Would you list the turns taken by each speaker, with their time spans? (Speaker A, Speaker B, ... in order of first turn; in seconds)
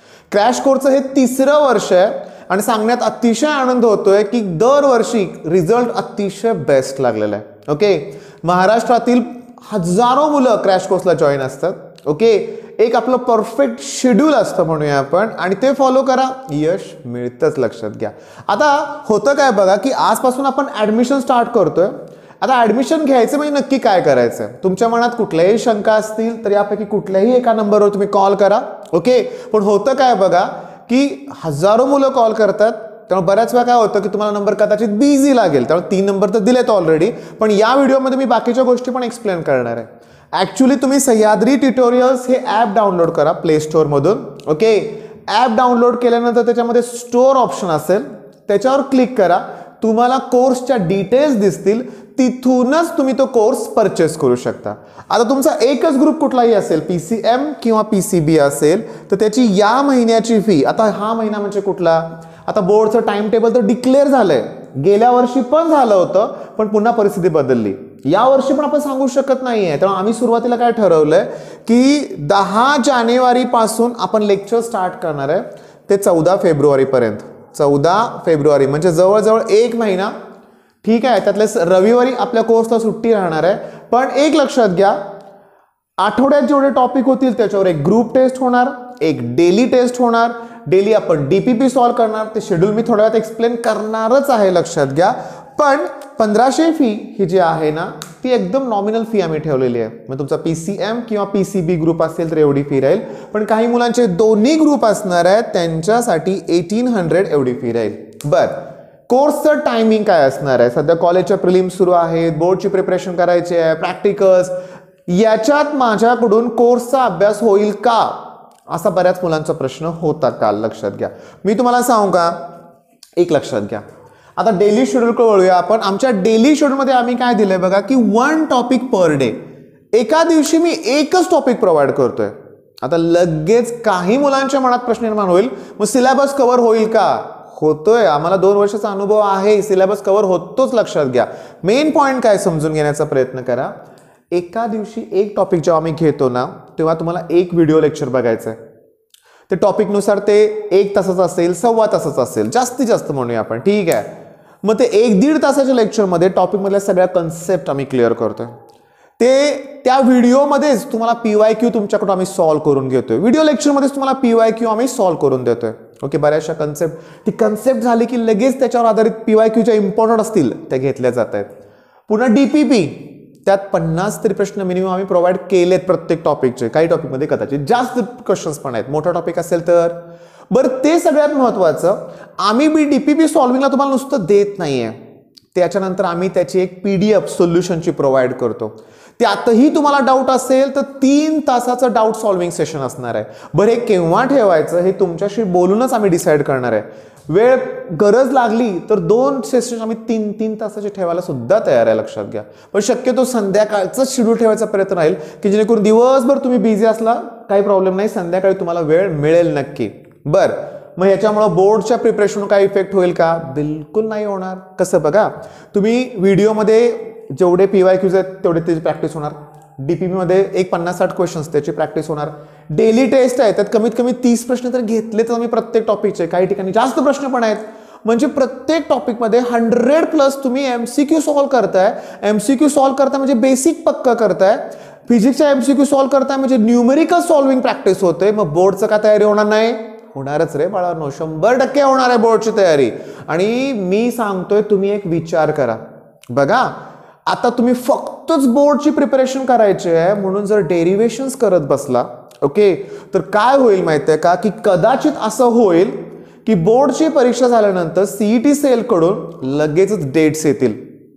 Speaker A: 0.3-80.1, 80.8-85.0, 86.0-114.5, 115.1-122.4, 123.2-123.8, 124.4-129.4, 129.9-143.7, 144.3-148.6, 149.5-154.1, 154.6-158.6, 159.2-171.5, 172.1-180.0, 180.5-185.0, 185.5-246.8, 247.3-260.8